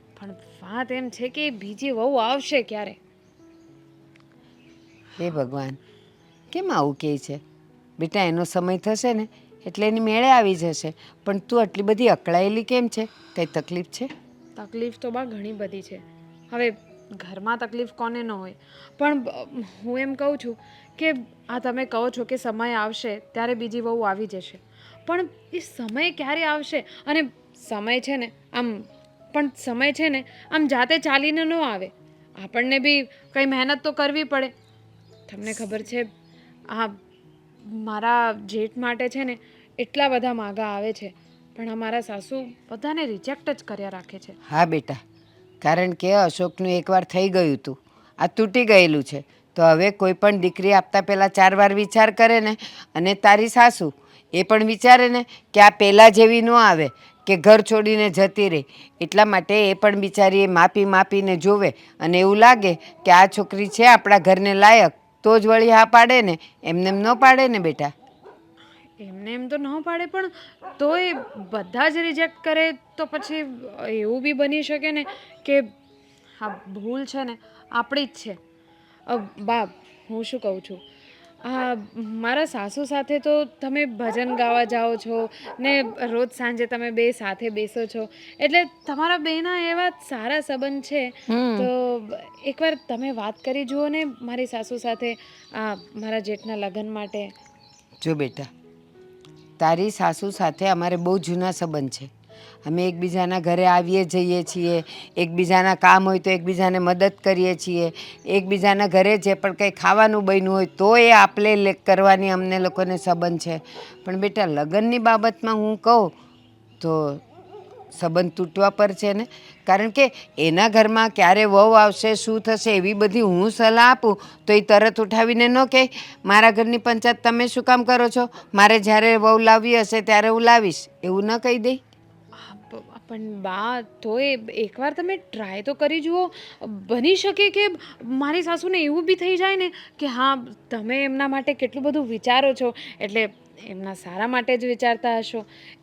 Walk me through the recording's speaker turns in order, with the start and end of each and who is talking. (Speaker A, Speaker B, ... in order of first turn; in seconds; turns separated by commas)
Speaker A: 0.1-3.0, Speaker B: 5.2-5.8, Speaker B: 6.5-7.4, Speaker B: 8.0-14.1, Speaker A: 14.6-34.5, Speaker A: 35.3-36.0, Speaker A: 36.7-37.0, Speaker A: 37.6-44.4, Speaker B: 44.5-45.0, Speaker B: 45.6-67.9, Speaker A: 69.0-75.6, Speaker A: 76.4-78.4, Speaker A: 79.1-80.8, Speaker A: 81.4-97.3, Speaker B: 91.3-91.7, Speaker B: 98.0-98.5, Speaker B: 99.6-102.1, Speaker B: 102.6-116.1, Speaker B: 116.8-117.2, Speaker B: 117.9-131.8, Speaker A: 132.4-145.4